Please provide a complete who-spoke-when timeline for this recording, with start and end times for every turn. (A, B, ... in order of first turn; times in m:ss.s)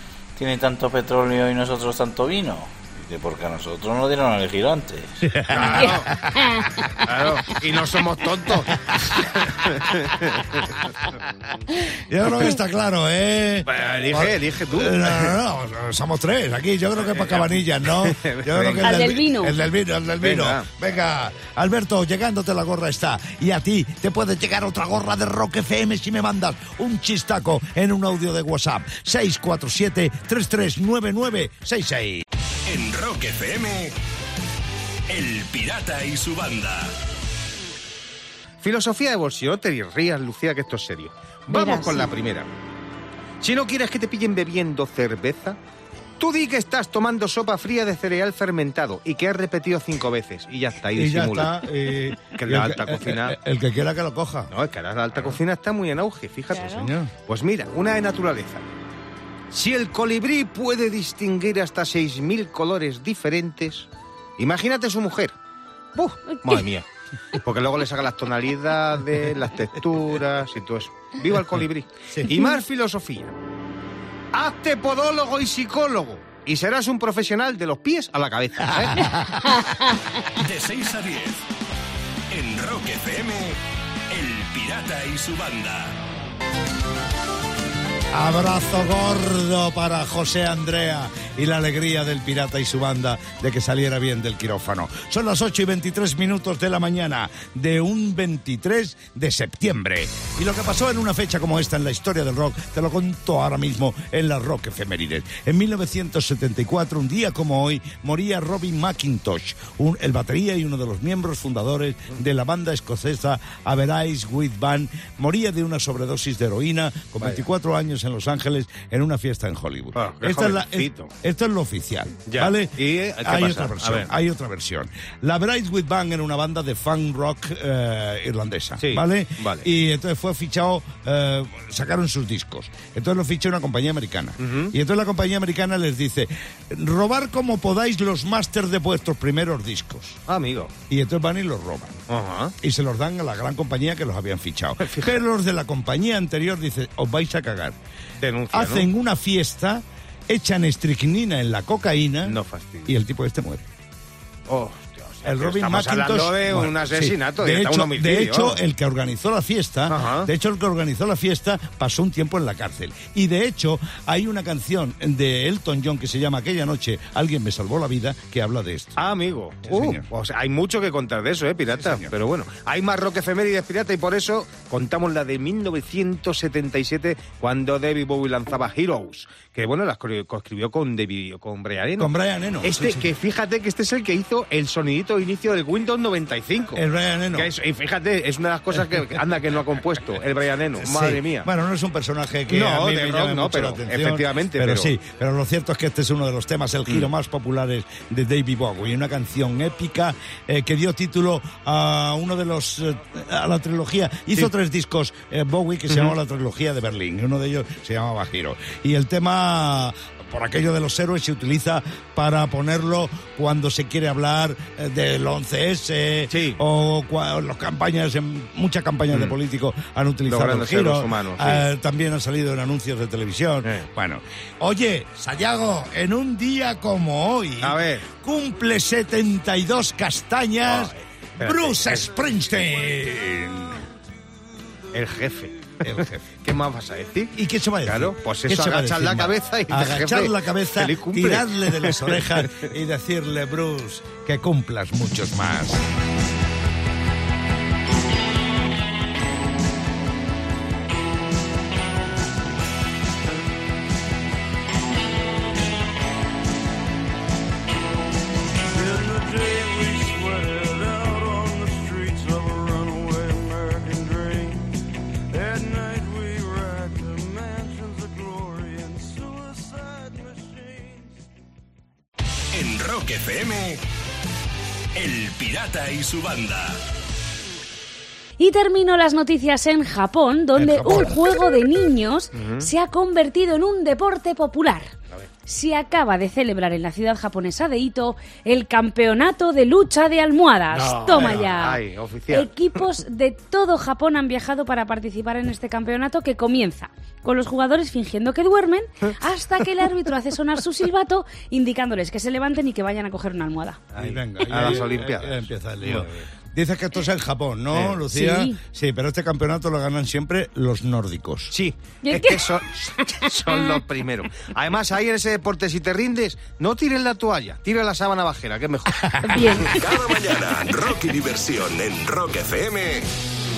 0:00.4-0:05.2 A
0:05.2-0:06.9 B
0:05.5-0:06.1 C
0:07.0-0:08.8 C
0:08.8-0:09.2 B
0:09.4-0:11.1 C
0:11.9-0:32.2 B
0:13.6-0:15.4 C
0:17.0-0:18.9 C
0:18.8-0:19.6 D
0:20.2-0:20.7 C
0:32.6-0:33.9 D
0:32.7-0:33.9 E
0:35.1-0:36.7 D
0:35.2-0:37.0 E
0:38.6-0:42.5 C
0:41.5-0:42.1 D
0:43.4-0:45.6 C
0:46.2-0:51.5 C
0:50.9-0:54.5 B
0:52.3-0:53.4 C
0:54.5-0:58.7 C
0:56.5-0:56.9 D
0:56.7-0:57.1 B
0:59.5-1:05.3 C
1:05.9-1:06.8 C
1:06.3-1:06.6 D
1:07.4-1:13.3 C
1:14.3-1:19.1 C
1:18.7-1:19.6 B
1:19.6-1:20.7 D
1:20.7-1:21.4 E
1:22.3-1:26.0 E
1:28.1-2:20.2 B
1:59.9-2:01.1 C
2:02.3-2:04.1 C
2:08.8-2:09.6 C
2:14.4-2:14.7 C
2:20.3-2:20.7 C
2:20.9-2:22.0 B
2:22.1-2:22.5 C
2:22.6-2:27.8 B
2:24.8-2:25.2 C
2:28.2-2:28.9 C
2:28.5-2:33.6 B
2:32.2-2:32.9 C
2:34.5-2:38.6 C
2:35.2-2:49.0 B
2:39.9-2:40.3 C
2:49.0-3:02.1 C
2:49.6-2:50.0 B
2:51.8-2:52.1 B
3:02.0-3:03.1 B
3:02.6-3:11.5 C
3:06.7-3:07.5 B
3:10.8-3:53.8 B
3:12.5-3:14.9 C
3:25.9-3:26.1 C
3:36.3-3:36.6 C
3:40.3-3:41.6 C
3:47.6-3:48.0 C
3:50.6-3:52.0 C
3:54.9-4:02.6 C
3:55.8-3:56.3 B
3:57.3-4:05.8 B
4:18.8-4:24.5 F
4:25.3-4:31.0 F
4:32.5-4:33.8 E
4:32.6-4:33.8 D
4:35.0-4:36.8 E
4:38.4-4:44.9 D
4:40.6-4:41.1 B
4:42.3-4:42.7 C
4:45.5-5:03.8 D
4:50.8-4:52.5 C
4:51.0-4:51.5 B
5:03.9-5:06.1 C
5:04.0-5:11.5 B
5:07.7-5:08.0 C
5:08.1-5:08.6 D
5:11.5-5:19.4 C
5:12.0-5:12.4 D
5:19.1-5:19.8 B
5:19.2-5:20.2 D
5:19.8-5:23.1 E